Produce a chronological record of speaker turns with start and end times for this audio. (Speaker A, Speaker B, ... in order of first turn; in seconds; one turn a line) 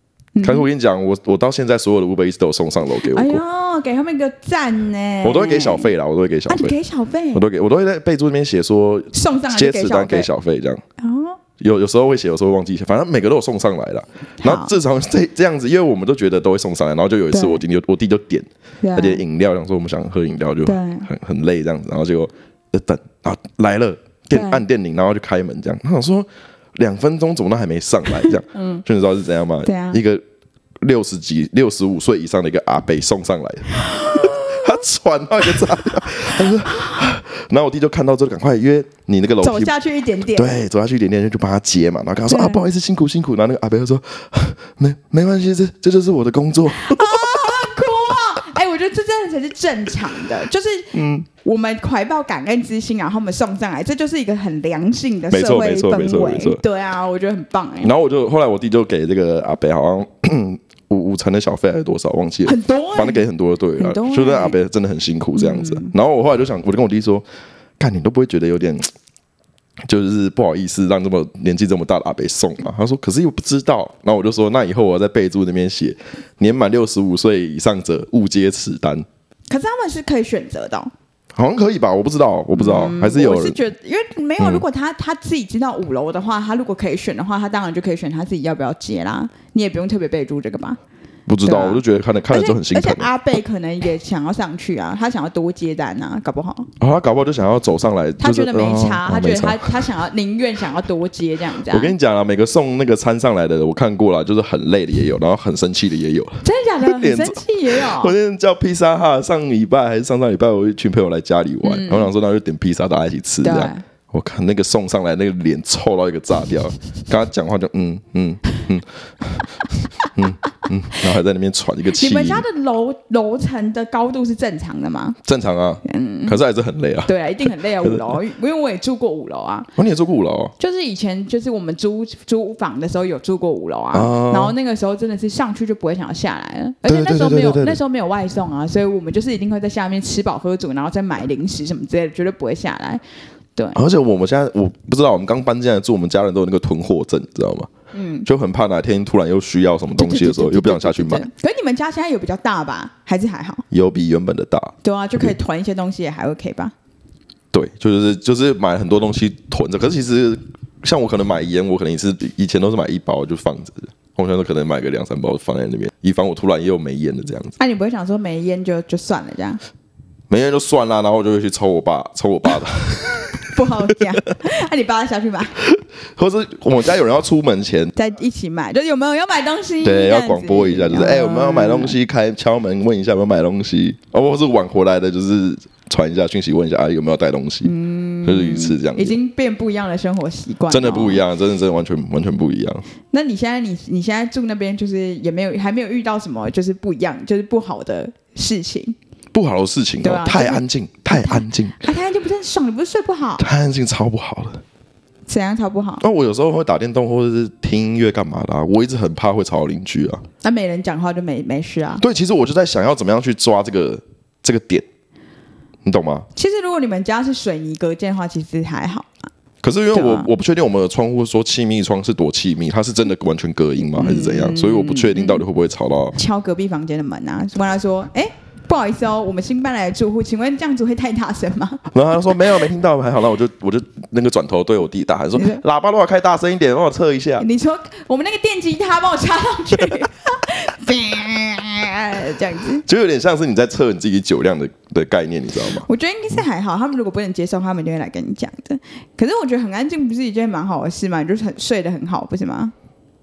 Speaker A: 0.3-0.7
Speaker B: 0.4-3.4
Speaker A: 3.0-5.9
Speaker B: 5.2-6.7
Speaker A: 6.5-7.4
Speaker B: 7.3-10.8
Speaker A: 9.1-10.3
Speaker A: 11.0-11.4
Speaker B: 11.6-30.2
Speaker A: 14.4-14.7
Speaker A: 17.3-17.6
Speaker A: 18.8-19.2
Speaker A: 20.6-21.1
Speaker A: 24.3-24.6
Speaker A: 28.2-28.8
Speaker A: 29.6-30.0
Speaker B: 30.8-39.7
Speaker A: 33.7-34.8
Speaker A: 35.5-37.0
Speaker A: 39.4-40.6
Speaker B: 40.3-47.5
Speaker A: 42.3-42.6
Speaker A: 46.7-57.9
Speaker B: 50.9-51.3
Speaker B: 55.3-56.6
Speaker B: 57.8-67.2
Speaker A: 62.4-63.2
Speaker A: 63.8-64.6
Speaker A: 65.3-65.9
Speaker B: 67.8-68.9
Speaker B: 69.9-79.0
Speaker A: 79.5-80.9
Speaker B: 81.3-83.6
Speaker A: 82.5-90.8
Speaker B: 84.4-84.6
Speaker B: 91.3-93.1
Speaker A: 91.4-96.7
Speaker B: 96.8-99.8
Speaker A: 98.2-101.9
Speaker B: 101.7-119.5
Speaker A: 106.4-108.2
Speaker A: 111.6-112.1
Speaker A: 113.4-113.8
Speaker B: 120.1-122.4
Speaker A: 121.9-125.2
Speaker B: 125.2-127.1
Speaker A: 125.8-126.4
Speaker A: 127.1-129.7
Speaker B: 127.8-128.2
Speaker B: 129.8-130.5
Speaker A: 130.6-143.0
Speaker B: 133.9-134.5
Speaker B: 136.8-137.8
Speaker A: 143.6-143.8
Speaker B: 143.7-147.7
Speaker A: 147.9-148.3
Speaker B: 148.2-151.3
Speaker A: 150.0-153.6
Speaker B: 153.7-154.7
Speaker A: 154.8-156.7
Speaker B: 157.5-167.6
Speaker A: 167.6-169.6
Speaker B: 170.3-173.4
Speaker A: 173.4-175.5
Speaker B: 175.6-177.9
Speaker A: 177.9-181.9
Speaker B: 179.8-187.7
Speaker A: 187.6-191.2
Speaker B: 188.2-189.1
Speaker B: 190.7-192.9
Speaker A: 193.1-198.9
Speaker B: 199.3-201.8
Speaker A: 200.0-203.4
Speaker B: 203.4-204.6
Speaker A: 205.3-206.0
Speaker B: 206.0-210.2
Speaker A: 210.4-212.0
Speaker B: 212.0-214.8
Speaker B: 215.8-216.3
Speaker A: 216.3-219.3
Speaker B: 219.6-226.2
Speaker A: 219.9-220.3
Speaker A: 223.9-225.4
Speaker A: 226.1-232.6
Speaker B: 231.9-237.4
Speaker A: 235.3-235.6
Speaker A: 237.4-242.8
Speaker B: 242.8-245.9
Speaker A: 245.8-252.7